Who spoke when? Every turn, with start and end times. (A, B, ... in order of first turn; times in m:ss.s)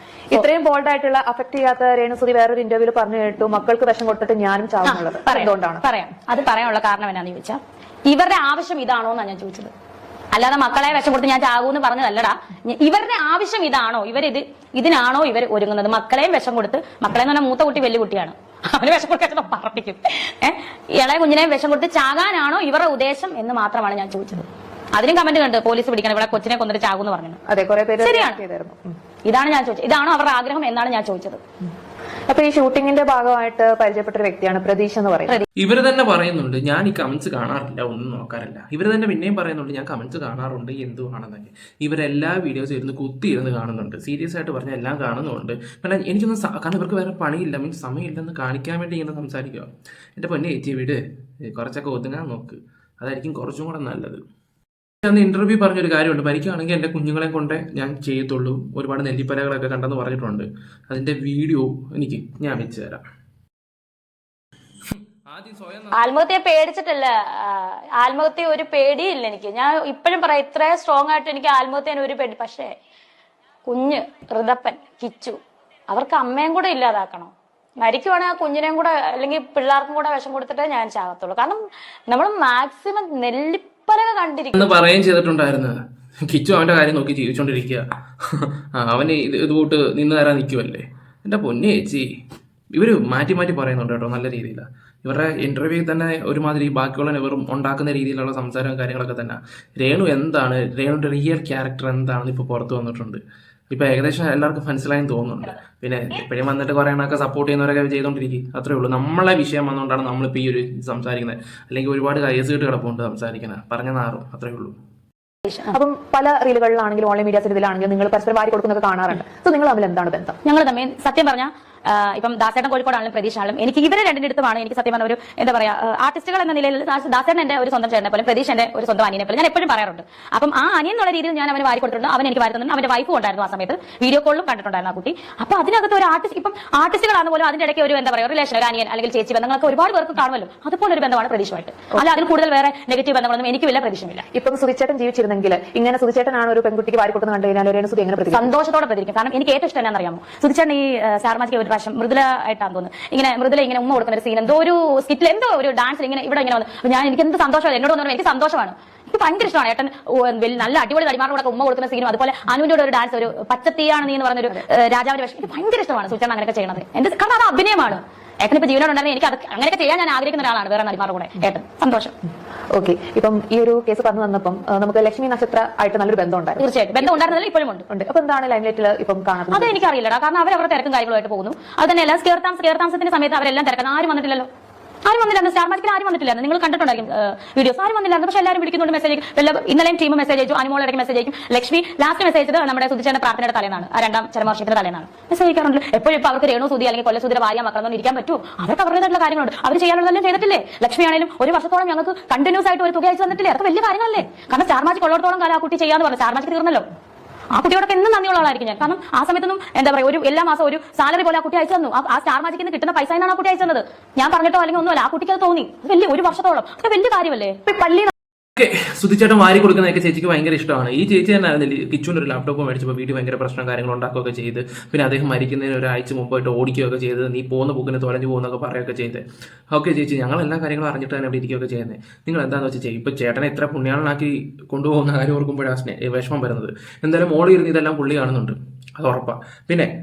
0:00.3-0:05.8 A
0:04.9-0:09.7 B
0:10.3-0:27.4 B
0:27.5-0:28.9 A
0:28.0-0:28.4 B
0:29.2-0:31.4 B
0:32.3-0:35.4 A
0:35.6-0:54.2 C
0:55.0-1:03.0 C
1:04.9-1:06.0 C
1:05.9-1:12.8 B
1:13.6-1:24.6 B
1:24.5-1:32.1 C
1:32.7-1:54.7 C
1:55.5-1:55.7 B
1:55.7-2:00.4 A
2:00.4-2:24.2 B
2:24.3-2:28.5 A
2:28.3-2:52.1 B
2:52.7-2:57.3 A
2:56.6-2:57.8 B
2:57.9-2:59.8 A
2:59.5-3:04.5 B
3:05.0-3:26.8 B
3:27.5-3:37.6 B
3:37.6-3:38.1 A
3:38.6-3:59.9 C